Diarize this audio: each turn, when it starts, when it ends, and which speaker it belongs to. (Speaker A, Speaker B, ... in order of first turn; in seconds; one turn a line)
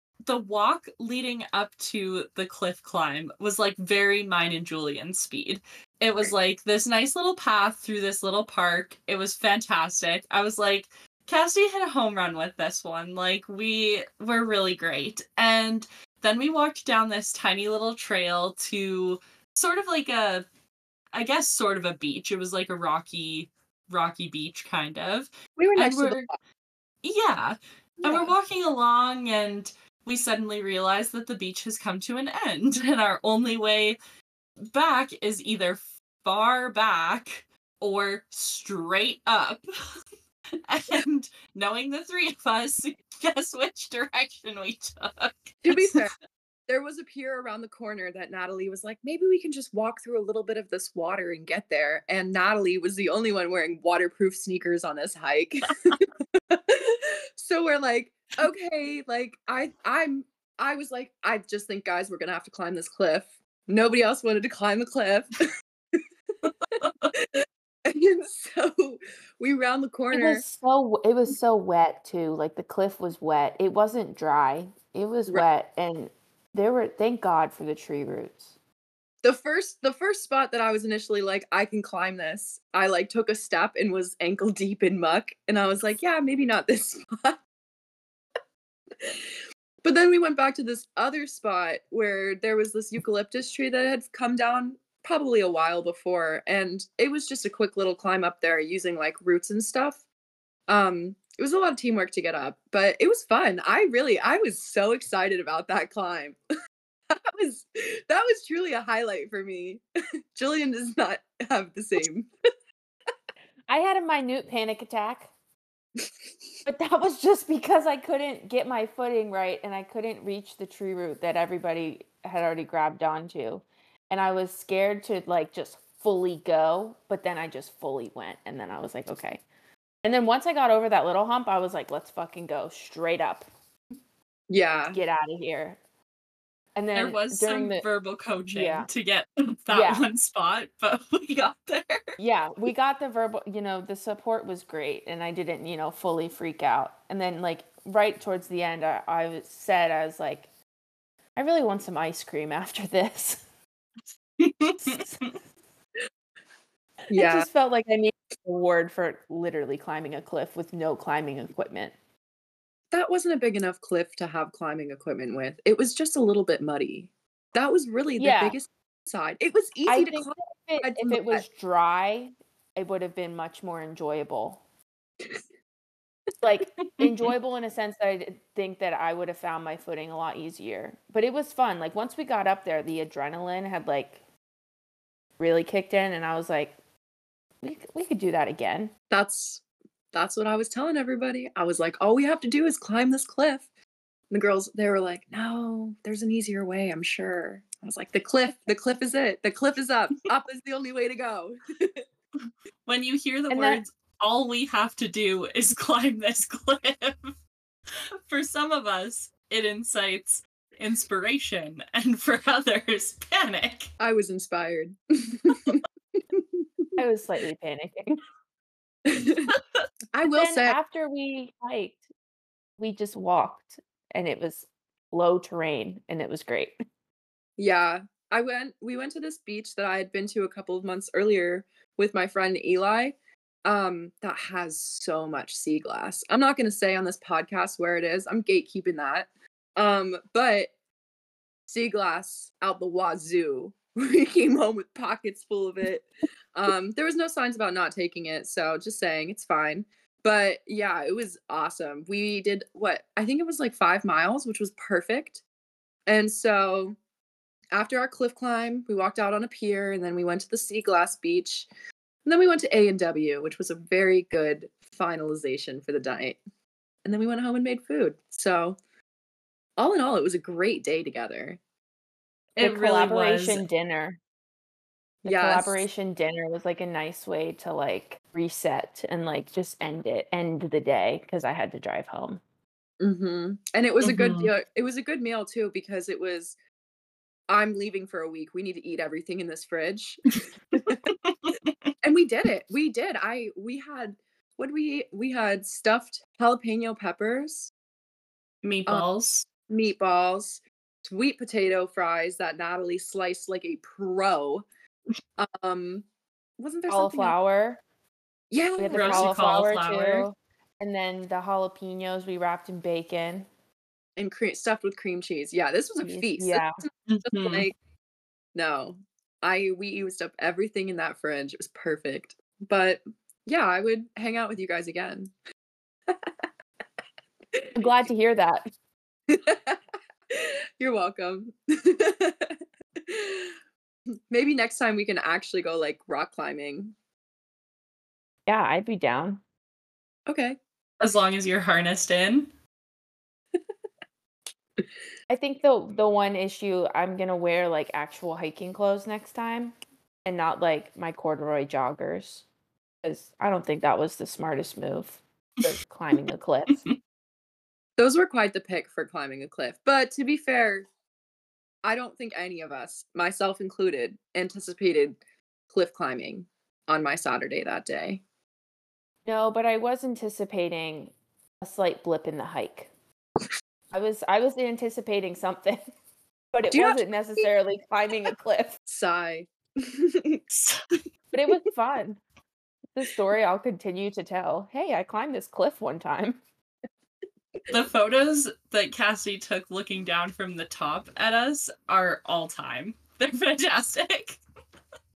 Speaker A: 0.2-20.4
Speaker A: 21.1-26.2
Speaker B: 25.6-26.4
Speaker A: 27.0-34.0
Speaker B: 28.0-28.3
Speaker A: 34.7-39.6
Speaker A: 40.7-46.0
Speaker B: 45.6-46.1
Speaker B: 46.7-65.5
Speaker B: 66.7-70.4
Speaker A: 66.8-67.1
Speaker C: 70.1-78.5
Speaker B: 79.2-87.4
Speaker B: 89.8-100.0
Speaker B: 100.7-106.4
Speaker B: 107.1-109.8
Speaker B: 110.3-112.3
Speaker C: 113.7-115.3
Speaker C: 116.7-129.4
Speaker C: 130.0-133.4
Speaker B: 134.5-135.0
Speaker C: 134.9-135.8
Speaker C: 136.8-137.8
Speaker A: 136.9-142.1
Speaker C: 138.5-138.9
Speaker C: 139.7-140.0
Speaker C: 142.2-150.5
Speaker C: 151.3-153.4
Speaker A: 154.4-155.3
Speaker C: 154.8-155.2
Speaker B: 157.1-157.5
Speaker C: 157.1-161.9
Speaker B: 162.9-171.4
Speaker C: 168.2-168.6
Speaker C: 169.9-174.6
Speaker C: 176.4-184.2
Speaker A: 176.8-177.3
Speaker C: 185.4-186.7
Speaker C: 187.6-188.9
Speaker B: 189.1-189.6
Speaker B: 190.1-193.7
Speaker B: 194.3-202.0
Speaker A: 202.8-207.3
Speaker C: 203.5-203.8
Speaker A: 208.3-213.9
Speaker B: 214.0-216.6
Speaker C: 217.0-218.2
Speaker B: 219.1-219.5
Speaker B: 220.1-220.8
Speaker C: 220.3-222.0
Speaker C: 222.8-226.8
Speaker B: 227.6-240.7
Speaker B: 241.7-255.4
Speaker B: 256.1-256.9
Speaker B: 257.7-261.7
Speaker B: 262.2-266.4
Speaker B: 267.0-268.8
Speaker B: 269.8-271.6
Speaker C: 272.6-274.2
Speaker A: 272.6-273.6
Speaker B: 275.2-275.9
Speaker C: 275.2-282.4
Speaker B: 283.0-286.5
Speaker A: 284.0-284.5
Speaker B: 287.5-291.0
Speaker A: 290.8-291.7
Speaker B: 292.0-297.7
Speaker A: 298.6-299.5
Speaker B: 299.7-304.6
Speaker B: 305.4-306.0
Speaker B: 306.6-307.3
Speaker C: 306.9-307.8
Speaker B: 308.5-309.3
Speaker C: 308.8-313.5
Speaker A: 308.9-310.3
Speaker B: 314.2-316.6
Speaker C: 316.0-316.8
Speaker A: 317.1-317.6
Speaker B: 317.2-317.7
Speaker B: 318.5-325.3
Speaker B: 326.1-326.3
Speaker B: 327.5-327.8
Speaker C: 327.8-328.7
Speaker B: 329.3-329.8
Speaker B: 330.3-333.5
Speaker B: 334.3-336.9
Speaker C: 338.5-339.4
Speaker B: 340.3-340.6
Speaker A: 341.0-342.5
Speaker C: 345.3-352.4
Speaker C: 353.0-356.8
Speaker B: 358.0-360.9
Speaker B: 361.8-365.2
Speaker B: 365.7-368.2
Speaker C: 369.2-372.9
Speaker C: 373.9-375.8
Speaker C: 376.5-378.8
Speaker B: 376.7-377.4
Speaker B: 378.9-380.4
Speaker A: 380.5-380.8
Speaker C: 381.3-382.2
Speaker C: 382.9-386.4
Speaker A: 387.7-394.4